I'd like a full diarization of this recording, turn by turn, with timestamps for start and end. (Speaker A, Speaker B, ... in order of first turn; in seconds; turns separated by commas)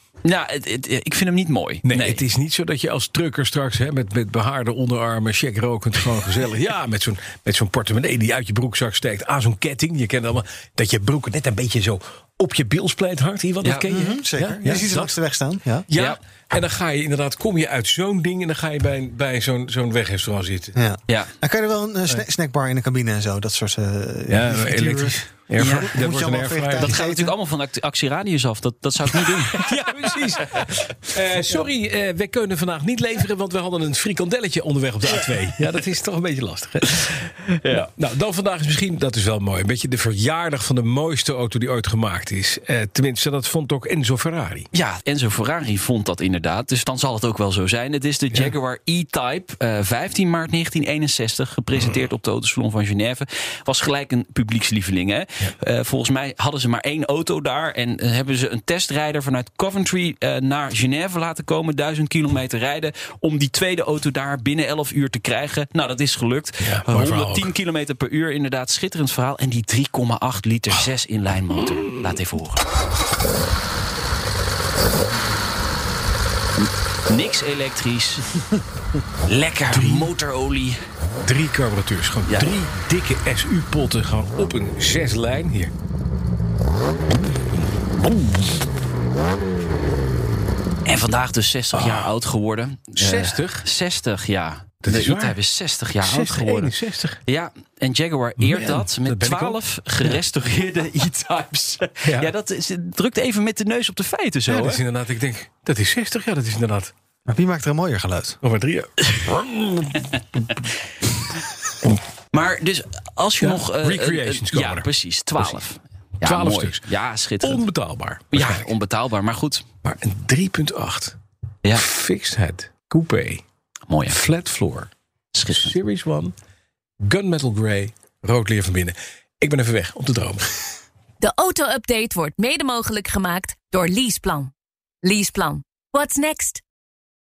Speaker A: 0.2-2.2, Speaker B: 1.9-15.2, Speaker C: 13.9-15.8, Speaker B: 15.9-20.8, Speaker A: 15.9-16.2, Speaker C: 20.8-27.3, Speaker B: 24.3-26.9, Speaker A: 25.6-26.0, Speaker A: 26.8-30.6, Speaker B: 29.1-44.7, Speaker A: 37.6-37.9, Speaker A: 44.7-72.6, Speaker B: 66.6-67.5, Speaker A: 77.1-78.3, Speaker A: 79.3-80.8, Speaker B: 79.7-80.1, Speaker B: 81.2-85.7, Speaker A: 82.3-82.5, Speaker A: 90.8-96.7, Speaker B: 91.7-92.1, Speaker B: 93.0-93.7, Speaker B: 94.8-95.4, Speaker B: 96.0-97.2, Speaker A: 97.3-104.8, Speaker B: 98.4-100.2, Speaker B: 102.0-102.3, Speaker B: 104.5-106.9, Speaker C: 107.3-108.4, Speaker B: 108.4-110.6, Speaker A: 110.1-110.5, Speaker A: 112.3-117.7, Speaker B: 113.4-115.6, Speaker B: 116.2-116.9, Speaker B: 117.4-118.7, Speaker A: 118.3-119.7, Speaker B: 119.8-121.2, Speaker B: 121.7-123.4, Speaker A: 123.9-124.2, Speaker B: 124.1-124.9, Speaker A: 125.3-125.8, Speaker B: 125.5-126.3, Speaker B: 127.0-130.4, Speaker D: 131.2-134.5, Speaker D: 135.0-136.6